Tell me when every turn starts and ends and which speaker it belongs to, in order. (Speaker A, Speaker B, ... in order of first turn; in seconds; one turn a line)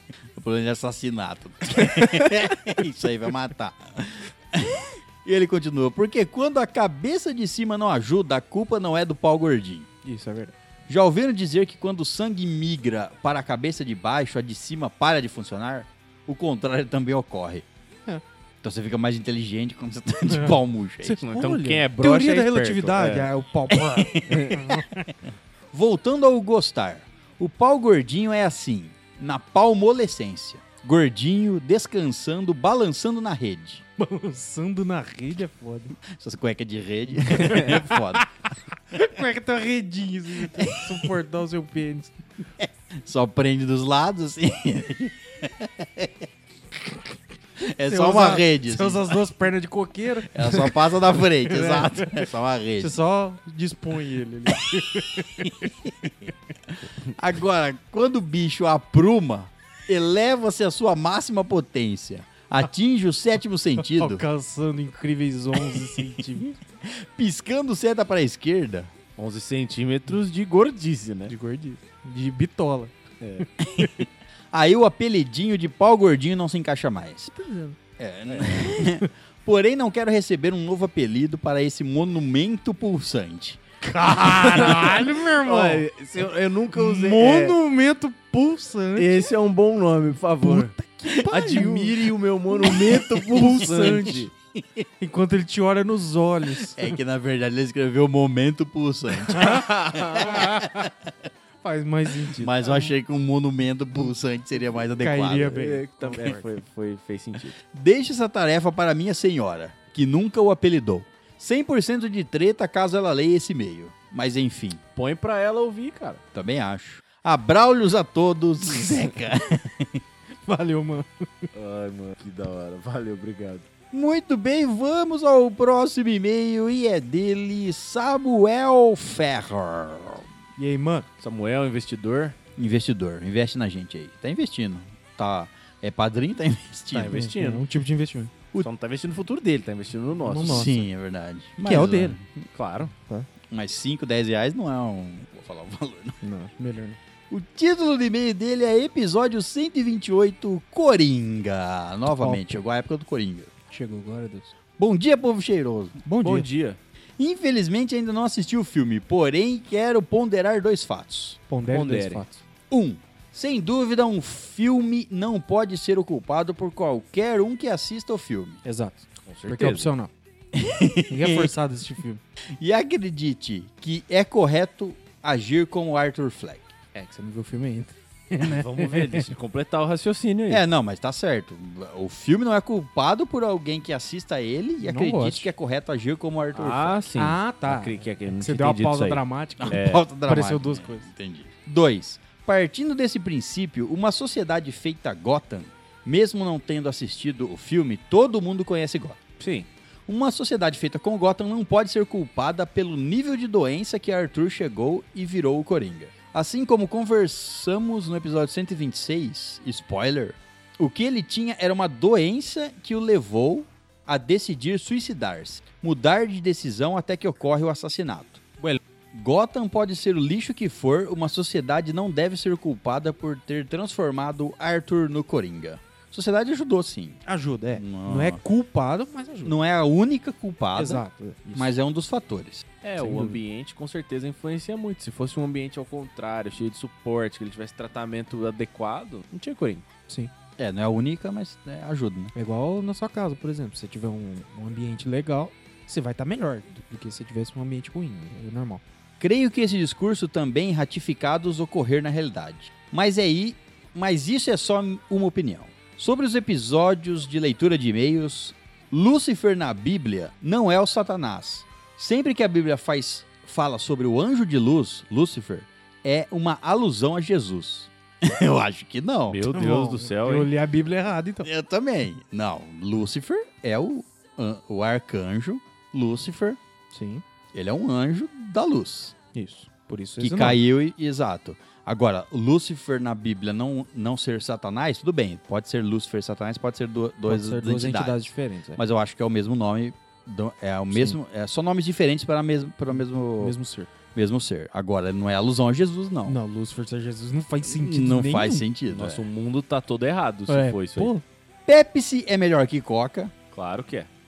Speaker A: 0.3-9.9
Speaker B: 10.0-10.5
Speaker A: 10.9-17.6
Speaker A: 18.6-21.2
Speaker B: 20.3-25.1
Speaker C: 21.2-23.3
Speaker A: 23.9-24.6
Speaker C: 24.3-24.6
Speaker A: 25.7-33.8
Speaker B: 34.0-36.0
Speaker A: 36.1-38.2
Speaker B: 37.3-38.3
Speaker B: 38.9-42.2
Speaker A: 40.5-40.9
Speaker A: 42.6-46.3
Speaker A: 47.6-49.2
Speaker B: 47.8-50.7
Speaker A: 50.3-53.0
Speaker B: 51.4-52.2
Speaker B: 52.8-55.7
Speaker A: 55.4-56.1
Speaker A: 57.0-64.2
Speaker B: 63.8-66.6
Speaker A: 66.8-68.9
Speaker C: 69.2-71.3
Speaker B: 71.3-73.9
Speaker C: 73.2-73.5
Speaker A: 73.6-77.3
Speaker B: 77.3-77.8
Speaker A: 78.0-83.6
Speaker B: 78.8-79.1
Speaker B: 83.8-85.8
Speaker C: 84.2-87.6
Speaker B: 86.7-89.2
Speaker C: 89.0-90.7
Speaker B: 90.4-92.0
Speaker C: 91.2-94.3
Speaker B: 92.5-94.3
Speaker A: 94.5-94.8
Speaker B: 95.0-96.9
Speaker A: 96.7-100.9
Speaker B: 99.3-100.8
Speaker C: 99.5-100.3
Speaker B: 101.6-102.9
Speaker A: 102.4-105.6
Speaker B: 105.0-106.4
Speaker C: 105.5-107.6
Speaker A: 107.7-114.8
Speaker C: 114.9-116.2
Speaker A: 116.3-120.0
Speaker B: 120.4-121.5
Speaker C: 121.5-123.7
Speaker A: 123.9-130.2
Speaker B: 130.6-131.1
Speaker C: 131.2-132.4
Speaker A: 132.6-137.2
Speaker C: 136.9-137.6
Speaker B: 137.1-138.3
Speaker C: 138.6-140.7
Speaker B: 140.2-140.8
Speaker A: 140.4-142.2
Speaker B: 141.6-142.2
Speaker C: 142.5-142.9
Speaker B: 143.0-143.3
Speaker A: 143.5-146.2
Speaker B: 146.2-147.0
Speaker A: 147.3-153.5
Speaker B: 152.0-152.6
Speaker B: 153.7-154.5
Speaker A: 154.8-156.0
Speaker B: 156.0-156.5
Speaker C: 156.2-156.8
Speaker A: 157.2-161.4
Speaker B: 161.5-162.4
Speaker C: 161.7-162.2
Speaker A: 162.7-168.6
Speaker B: 168.6-170.1
Speaker C: 169.2-169.9
Speaker A: 170.5-171.5
Speaker B: 171.1-172.2
Speaker A: 172.6-176.7
Speaker B: 176.9-179.2
Speaker C: 178.4-180.6
Speaker A: 180.5-187.2
Speaker B: 184.8-185.5
Speaker C: 186.5-190.0
Speaker B: 187.2-191.1
Speaker A: 189.6-199.2
Speaker C: 199.4-199.7
Speaker A: 200.1-218.4
Speaker A: 219.1-227.2
Speaker B: 227.2-229.5
Speaker A: 227.7-228.4
Speaker A: 229.4-231.0
Speaker B: 230.8-231.7
Speaker A: 231.5-232.6
Speaker C: 232.8-239.8
Speaker B: 233.0-233.4
Speaker A: 240.6-242.3
Speaker B: 242.3-248.8
Speaker A: 249.2-269.4
Speaker C: 269.3-270.5
Speaker B: 269.5-271.5
Speaker A: 271.4-276.6
Speaker B: 276.9-277.2
Speaker A: 277.5-279.1
Speaker B: 279.3-280.6
Speaker A: 280.2-293.5
Speaker B: 287.3-288.8
Speaker B: 290.9-291.2
Speaker B: 293.4-293.9
Speaker A: 294.1-296.4
Speaker B: 296.2-298.6
Speaker A: 297.6-299.2
Speaker C: 298.9-301.1
Speaker B: 300.5-301.2
Speaker A: 301.6-303.3
Speaker C: 303.5-304.1